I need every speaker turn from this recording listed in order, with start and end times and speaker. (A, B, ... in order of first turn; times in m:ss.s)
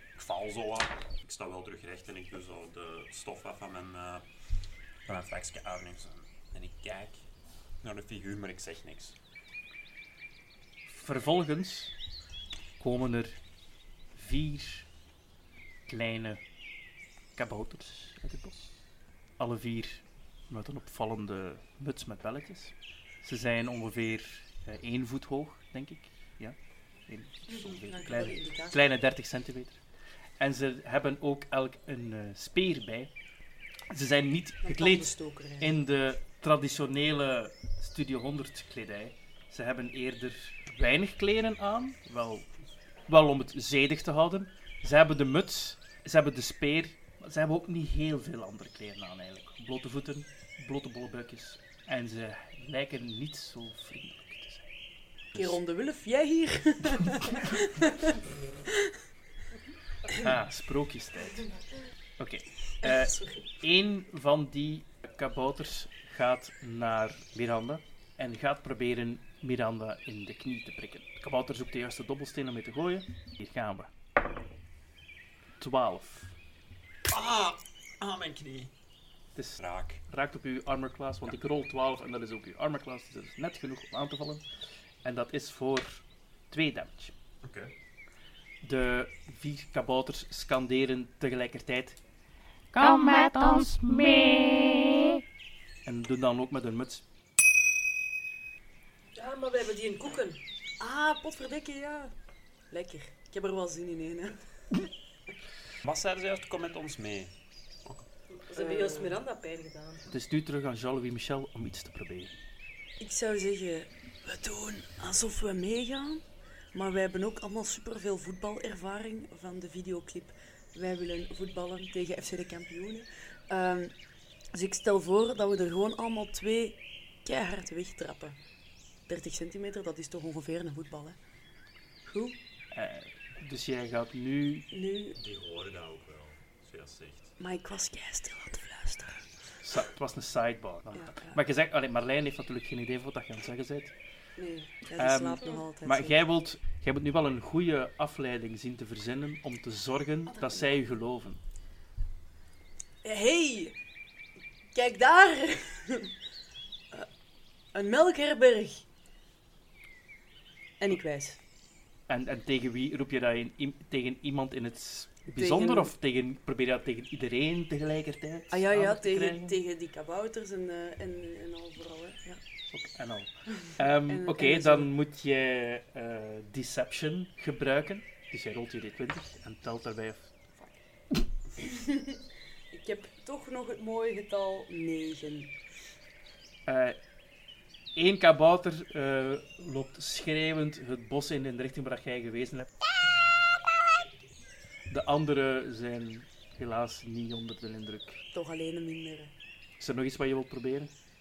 0:00.1-0:04.2 A
0:05.1-0:07.2 A
0:07.8-0:09.2 A
0:10.9-0:11.9 B
0:12.8-0:13.4 B
0:14.1-0:14.9 B
0:15.9-0:16.4 B
0:17.4-0:18.7 B
0:19.4-0:26.6 B
0:27.1-0:29.8 B
0:27.5-0:28.8 C
0:30.4-0:33.1 B
0:33.9-0:42.5 B
0:34.6-0:35.8 C
0:43.1-0:54.7 B
0:55.3-0:55.6 B
0:55.3-0:58.2 C
1:00.1-1:01.5 B
1:02.2-1:13.9 B
1:02.8-1:03.4 C
1:15.6-1:16.3 B
1:17.1-1:18.7 A
1:19.4-1:24.4 B
1:19.6-1:20.0 A
1:25.0-1:27.2 B
1:27.4-1:27.7 A
1:28.6-1:32.0 B
1:32.7-1:35.2 D
1:35.8-1:37.0 B
1:39.2-1:40.4 E
1:40.8-1:42.1 C
1:42.7-1:44.4 C
1:45.8-1:47.3 A
1:48.3-1:50.0 E
1:48.5-1:49.2 C
1:50.1-1:52.3 B
1:53.0-2:03.9 C
2:04.5-2:08.4 C
2:09.1-2:11.2 C
2:12.1-2:12.4 C
2:12.7-2:14.7 B
2:14.7-2:15.2 C
2:15.2-2:17.3 A
2:17.4-2:19.3 C
2:19.6-2:23.9 B
2:20.9-2:21.4 C
2:24.4-2:26.2 C
2:25.0-2:31.4 B
2:33.0-2:33.7 C
2:34.7-2:36.1 C
2:37.7-2:38.8 C
2:40.8-2:41.4 C
2:42.1-2:49.6 B
2:45.3-2:45.9 C
2:48.5-2:52.4 C
2:52.7-3:00.4 B
2:53.8-2:54.9 C
3:01.6-3:02.2 C
3:02.7-3:05.6 C
3:06.7-3:07.0 B
3:08.0-3:12.7 B
3:14.9-3:18.2 B
3:18.3-3:19.3 C
3:19.8-3:20.9 B